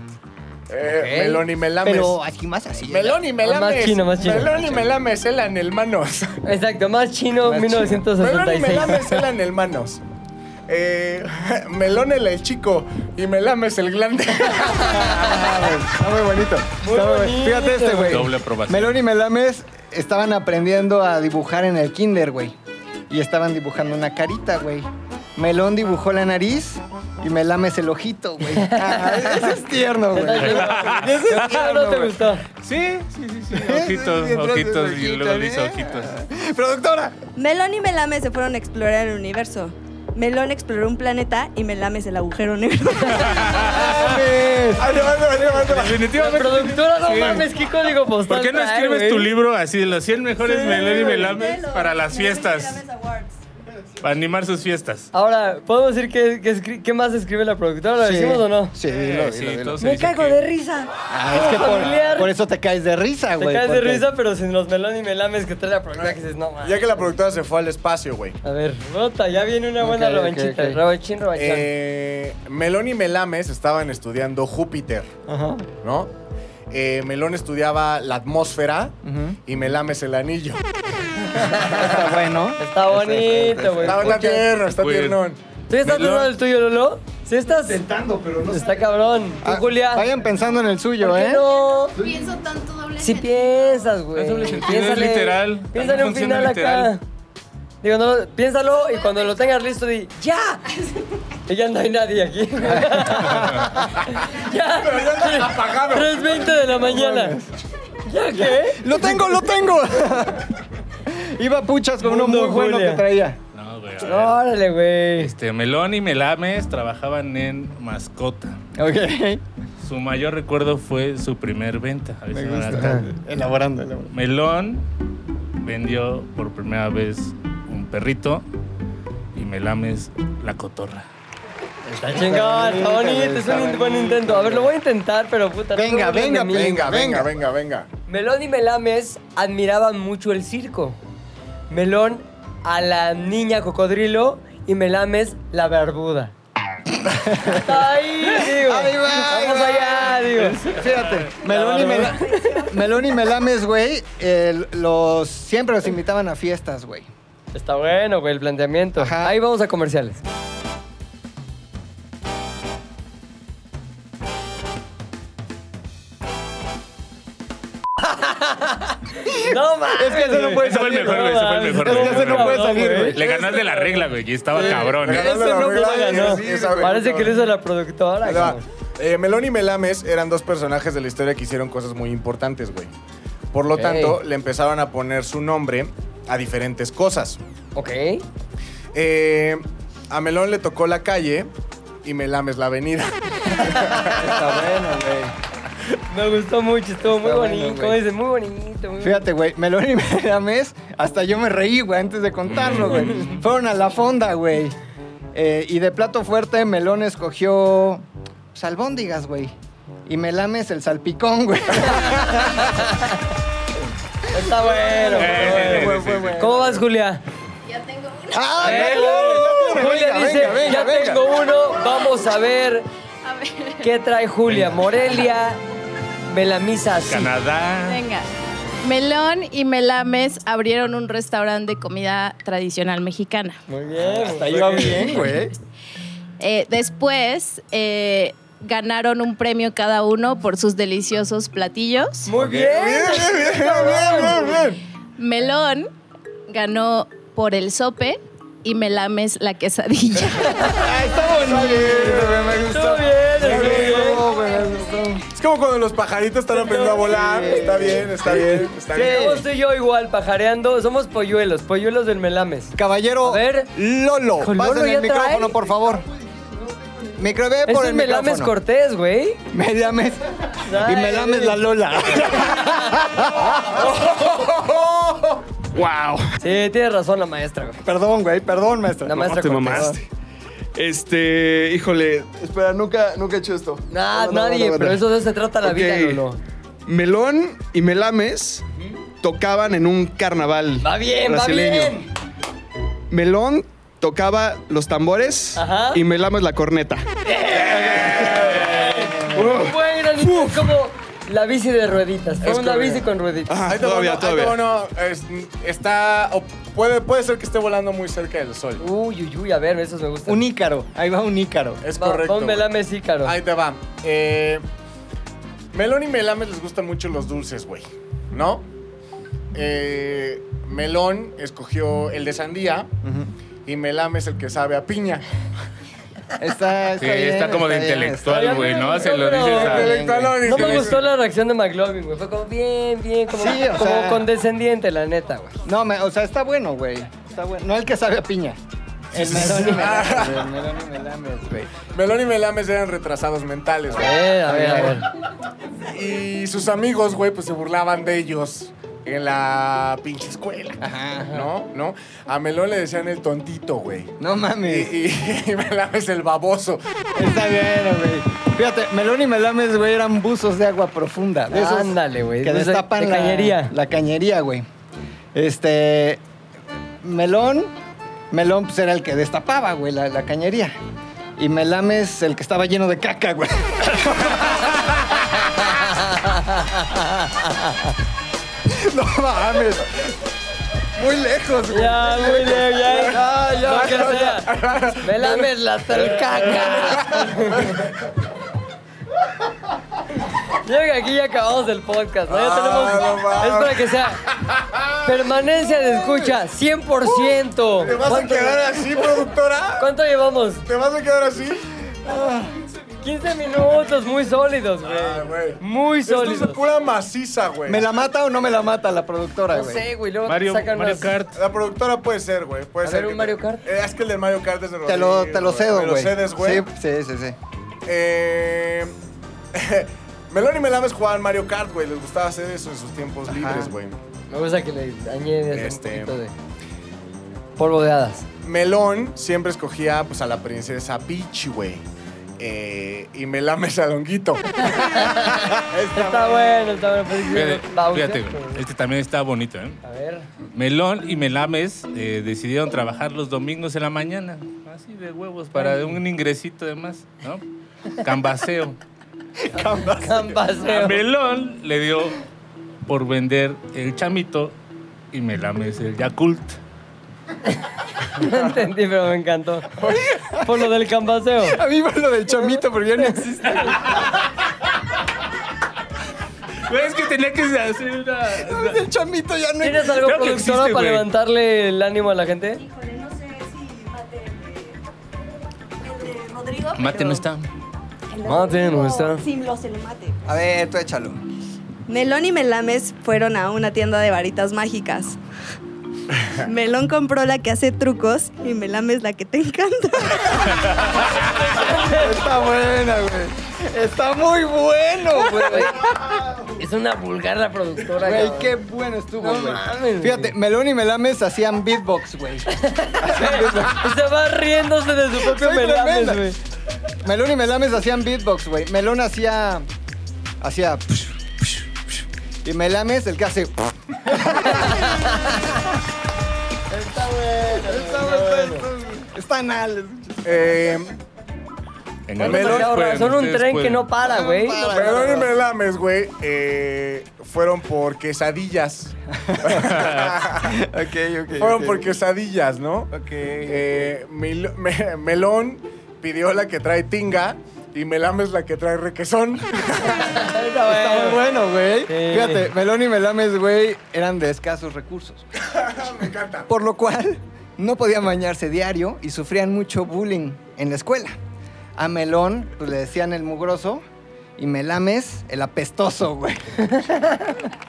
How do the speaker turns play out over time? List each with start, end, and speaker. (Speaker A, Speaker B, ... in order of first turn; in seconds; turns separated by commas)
Speaker A: 0.7-2.2, Speaker B: 0.8-1.4, Speaker C: 1.8-3.2, Speaker A: 2.8-6.3, Speaker B: 3.4-4.8, Speaker B: 6.4-9.0, Speaker C: 7.4-8.0, Speaker A: 8.1-10.0, Speaker A: 10.7-15.4, Speaker B: 14.8-15.3, Speaker C: 14.8-22.6, Speaker B: 16.8-18.3, Speaker D: 18.1-19.0, Speaker C: 23.1-32.1, Speaker B: 28.6-29.6, Speaker B: 30.1-32.5, Speaker D: 30.4-31.5, Speaker D: 32.6-36.1, Speaker C: 33.5-37.2, Speaker E: 37.4-44.0, Speaker D: 43.1-44.2, Speaker C: 43.6-44.9, Speaker A: 44.8-46.1, Speaker D: 45.5-47.5, Speaker B: 46.1-49.3, Speaker D: 48.3-52.8, Speaker B: 50.4-51.2, Speaker E: 50.6-53.4, Speaker D: 54.0-55.1, Speaker B: 55.1-58.8, Speaker C: 58.0-59.8, Speaker D: 58.8-60.5, Speaker B: 59.8-62.3, Speaker C: 61.1-64.1, Speaker B: 63.4-67.0, Speaker A: 66.0-68.4, Speaker B: 68.4-71.7, Speaker C: 69.8-70.8, Speaker A: 71.3-75.1, Speaker C: 75.3-75.7, Speaker A: 75.8-76.1, Speaker A: 76.7-79.0, Speaker C: 79.0-79.4, Speaker A: 79.5-80.6, Speaker B: 81.3-82.0, Speaker C: 81.7-84.2, Speaker B: 82.6-84.5, Speaker A: 83.8-85.4, Speaker D: 84.8-85.2, Speaker B: 85.7-87.9, Speaker D: 85.8-86.3, Speaker C: 87.7-92.3, Speaker B: 88.5-90.1, Speaker B: 91.0-92.0, Speaker F: 92.0-93.1, Speaker B: 93.0-97.0, Speaker D: 94.2-96.9, Speaker B: 97.8-100.7, Speaker B: 101.5-107.4, Speaker C: 102.8-103.6, Speaker A: 104.8-106.5, Speaker C: 106.6-107.5, Speaker B: 108.0-109.0, Speaker C: 108.3-113.4, Speaker B: 112.0-113.1, Speaker D: 113.5-114.4, Speaker B: 114.0-115.3, Speaker D: 115.2-118.6, Speaker C: 118.8-119.4, Speaker D: 119.8-123.0, Speaker C: 122.3-124.1, Speaker B: 122.8-123.1, Speaker D: 124.1-124.8, Speaker D: 125.6-128.4, Speaker D: 129.3-131.1, Speaker C: 131.9-134.7, Speaker B: 132.0-136.8, Speaker C: 135.7-137.3, Speaker A: 136.5-137.9, Speaker B: 138.1-141.0, Speaker B: 141.7-146.3, Speaker C: 147.1-157.1, Speaker B: 147.5-150.8, Speaker D: 150.9-151.2, Speaker B: 151.4-152.7, Speaker B: 157.5-160.2, Speaker C: 159.0-159.4, Speaker B: 168.1-178.6, Speaker C: 169.2-173.5, Speaker D: 170.6-175.3, Speaker A: 174.9-177.4, Speaker C: 175.1-177.1, Speaker A: 178.2-182.9, Speaker A: 183.5-187.4, Speaker B: 183.8-184.2, Speaker B: 187.8-188.2, Speaker A: 188.9-191.5, Speaker A: 192.0-193.1, Speaker B: 193.6-194.0, Speaker C: 193.7-195.3, Speaker B: 196.1-199.2, Speaker C: 197.2-198.0, Speaker C: 199.0-204.8, Speaker D: 202.5-203.4, Speaker B: 202.8-203.3, Speaker C: 205.3-209.5, Speaker C: 210.1-212.7, Speaker B: 211.8-213.2, Speaker B: 214.3-217.2, Speaker C: 214.8-216.8, Speaker D: 215.2-216.5, Speaker F: 217.7-218.4, Speaker C: 218.3-221.2, Speaker B: 218.6-222.9, Speaker D: 218.6-219.4, Speaker F: 223.2-223.8, Speaker B: 223.8-225.6, Speaker B: 226.3-227.3, Speaker D: 227.1-228.0, Speaker F: 227.9-228.3, Speaker F: 228.8-233.6, Speaker B: 233.7-235.2, Speaker C: 234.1-235.5, Speaker F: 236.4-242.3, Speaker B: 242.3-244.6, Speaker C: 242.4-244.3, Speaker A: 242.5-244.8, Speaker F: 245.2-245.9, Speaker F: 246.5-250.8, Speaker B: 250.4-250.7, Speaker C: 250.7-255.2, Speaker B: 251.5-254.2, Speaker A: 253.4-254.2, Speaker A: 255.3-259.4, Speaker B: 256.5-258.0, Speaker C: 257.0-259.4, Speaker B: 258.9-263.7, Speaker C: 262.8-266.1, Speaker B: 264.4-265.6, Speaker C: 267.0-268.5, Speaker B: 267.7-269.4, Speaker C: 269.5-273.9, Speaker B: 270.6-271.6, Speaker B: 272.2-272.9, Speaker A: 273.9-275.4, Speaker G: 275.7-276.3, Speaker B: 276.4-277.9, Speaker C: 277.8-280.0, Speaker B: 279.1-279.9, Speaker G: 279.2-280.0, Speaker G: 280.8-285.0, Speaker B: 283.9-286.4, Speaker G: 285.6-286.2, Speaker G: 286.9-288.7, Speaker G: 289.2-292.0, Speaker B: 290.8-292.1, Speaker G: 293.1-297.1, Speaker B: 295.6-296.0, Speaker B: 297.3-303.5, Speaker C: 297.7-299.6, Speaker G: 299.3-300.6, Speaker A: 302.4-303.1, Speaker G: 303.5-304.6, Speaker A: 303.6-308.8, Speaker B: 308.8-310.4, Speaker C: 310.3-311.8, Speaker A: 311.8-312.7, Speaker B: 311.9-313.4, Speaker A: 313.2-314.6, Speaker A: 315.7-318.7, Speaker A: 319.5-322.9, Speaker C: 323.0-323.3, Speaker A: 323.7-325.2, Speaker C: 326.4-330.4, Speaker D: 327.0-331.0, Speaker B: 328.3-335.6, Speaker A: 329.6-331.1, Speaker C: 333.3-334.3, Speaker C: 335.6-338.6, Speaker C: 339.1-341.8, Speaker B: 339.1-339.9, Speaker A: 339.5-340.4, Speaker A: 341.9-344.8, Speaker B: 343.9-345.1, Speaker C: 344.5-344.9, Speaker A: 345.9-354.1, Speaker C: 350.8-351.3, Speaker C: 354.2-354.9, Speaker A: 354.6-356.8, Speaker C: 357.2-364.7, Speaker B: 361.5-363.7, Speaker C: 365.3-366.2, Speaker C: 367.0-367.7, Speaker C: 368.3-370.8, Speaker C: 371.4-374.7, Speaker B: 375.6-377.9, Speaker C: 378.7-380.1, Speaker C: 380.9-384.4, Speaker B: 381.7-387.9, Speaker A: 383.7-385.5, Speaker A: 386.8-387.9, Speaker B: 390.5-394.2, Speaker A: 392.3-395.1, Speaker B: 395.0-398.8, Speaker A: 397.2-399.9, Speaker B: 399.8-400.7, Speaker A: 400.7-401.7, Speaker C: 402.1-402.4, Speaker B: 403.0-406.6, Speaker A: 404.8-407.8, Speaker C: 407.7-409.9, Speaker B: 409.5-411.1, Speaker D: 410.3-411.4, Speaker A: 411.3-416.7, Speaker B: 412.8-413.6, Speaker C: 414.9-417.4, Speaker A: 417.9-418.9, Speaker A: 419.5-424.0, Speaker C: 423.3-423.7, Speaker B: 424.3-426.3, Speaker A: 425.5-426.2, Speaker B: 427.6-428.3, Speaker A: 428.4-431.8, Speaker A: 432.4-436.5, Speaker B: 434.6-438.6, Speaker D: 437.3-439.8, Speaker B: 439.8-440.3, Speaker D: 440.5-448.8, Speaker B: 445.6-446.0, Speaker C: 449.4-450.4, Speaker B: 449.9-451.0, Speaker D: 450.6-452.2, Speaker D: 452.9-454.6, Speaker D: 455.1-456.6, Speaker B: 458.1-459.7, Speaker C: 459.9-460.4, Speaker B: 460.4-461.6, Speaker C: 461.4-464.1, Speaker B: 463.0-463.9, Speaker D: 466.6-468.8, Speaker C: 468.4-470.0, Speaker B: 469.6-472.6, Speaker D: 470.0-471.1, Speaker E: 472.6-474.8, Speaker E: 475.8-477.2, Speaker D: 476.8-477.5, Speaker E: 478.1-480.2, Speaker B: 478.2-479.2, Speaker C: 480.3-481.2, Speaker E: 481.9-485.2, Speaker E: 486.3-491.0, Speaker B: 491.4-492.1, Speaker C: 491.6-496.4, Speaker B: 495.4-495.9, Speaker B: 496.6-498.6, Speaker C: 498.0-503.9, Speaker B: 499.2-500.3, Speaker B: 502.5-506.4, Speaker C: 505.2-506.3, Speaker C: 507.0-509.7, Speaker C: 510.4-515.1, Speaker B: 514.2-515.5, Speaker B: 516.7-518.7, Speaker C: 517.5-520.8, Speaker A: 520.2-521.0, Speaker D: 522.1-523.9, Speaker B: 522.2-525.3, Speaker A: 522.2-522.7, Speaker C: 524.0-525.3, Speaker A: 524.7-530.6, Speaker C: 529.2-529.9, Speaker C: 530.4-531.9, Speaker A: 531.4-532.9, Speaker C: 532.9-533.9, Speaker A: 533.5-540.0, Speaker B: 539.8-541.2, Speaker C: 540.4-545.3, Speaker B: 541.9-542.5, Speaker A: 545.4-546.5, Speaker C: 546.5-551.2, Speaker C: 551.8-553.8, Speaker C: 554.4-557.2